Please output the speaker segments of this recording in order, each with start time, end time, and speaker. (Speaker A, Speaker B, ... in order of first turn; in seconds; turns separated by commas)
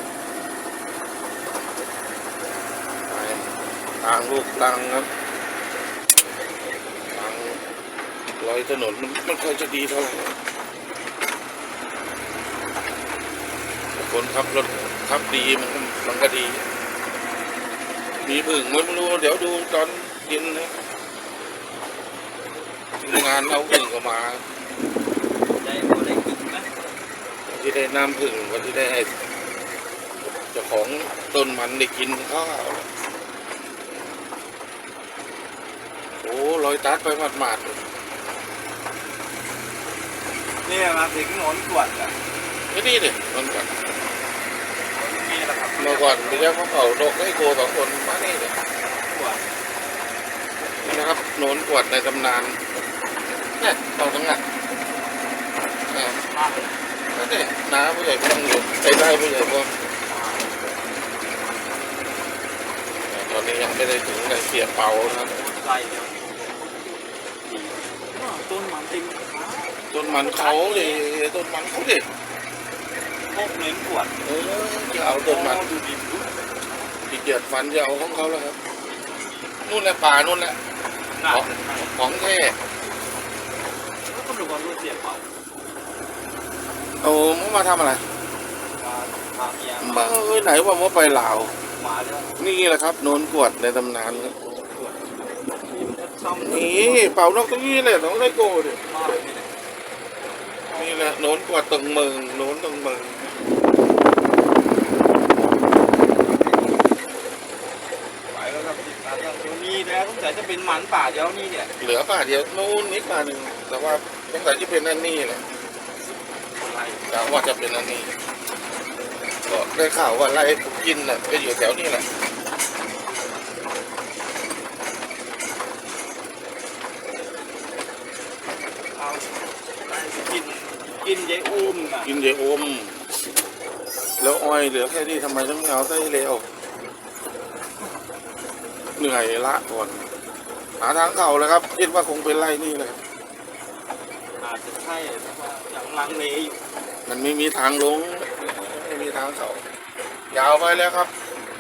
Speaker A: 3.1-3.5, Speaker A: 4.0-5.1, Speaker A: 7.1-7.6, Speaker A: 8.4-10.3, Speaker A: 13.9-16.6, Speaker A: 18.2-20.7, Speaker A: 23.0-24.4, Speaker B: 25.6-26.7, Speaker A: 27.5-29.1, Speaker A: 30.5-32.9, Speaker A: 36.2-37.8, Speaker B: 40.6-42.2, Speaker A: 42.7-43.7, Speaker B: 44.9-46.5, Speaker A: 45.8-48.5, Speaker B: 48.9-49.4, Speaker A: 50.8-52.6, Speaker A: 53.6-54.4, Speaker A: 55.9-56.2, Speaker B: 56.3-56.8, Speaker A: 57.1-59.7, Speaker A: 63.1-65.3, Speaker B: 65.0-71.0, Speaker A: 69.9-72.1, Speaker B: 73.3-74.2, Speaker A: 74.2-75.7, Speaker B: 75.1-76.3, Speaker A: 77.1-78.6, Speaker A: 79.6-80.6, Speaker B: 81.2-82.0, Speaker A: 81.3-82.6, Speaker B: 84.0-85.3, Speaker A: 87.0-88.0, Speaker B: 88.8-90.3, Speaker A: 89.8-91.5, Speaker B: 91.8-92.3, Speaker A: 92.4-94.3, Speaker B: 94.0-97.1, Speaker A: 96.4-99.2, Speaker B: 98.8-99.5, Speaker B: 100.7-101.2, Speaker A: 100.7-103.3, Speaker B: 108.3-111.7, Speaker A: 111.8-115.4, Speaker B: 116.6-117.0, Speaker A: 117.1-118.1, Speaker A: 119.5-122.1, Speaker B: 128.9-129.3, Speaker B: 129.8-132.2, Speaker A: 132.0-133.0, Speaker A: 134.2-136.5, Speaker A: 138.9-140.1, Speaker A: 140.8-143.0, Speaker B: 144.4-146.6, Speaker A: 147.1-149.6, Speaker A: 150.3-151.1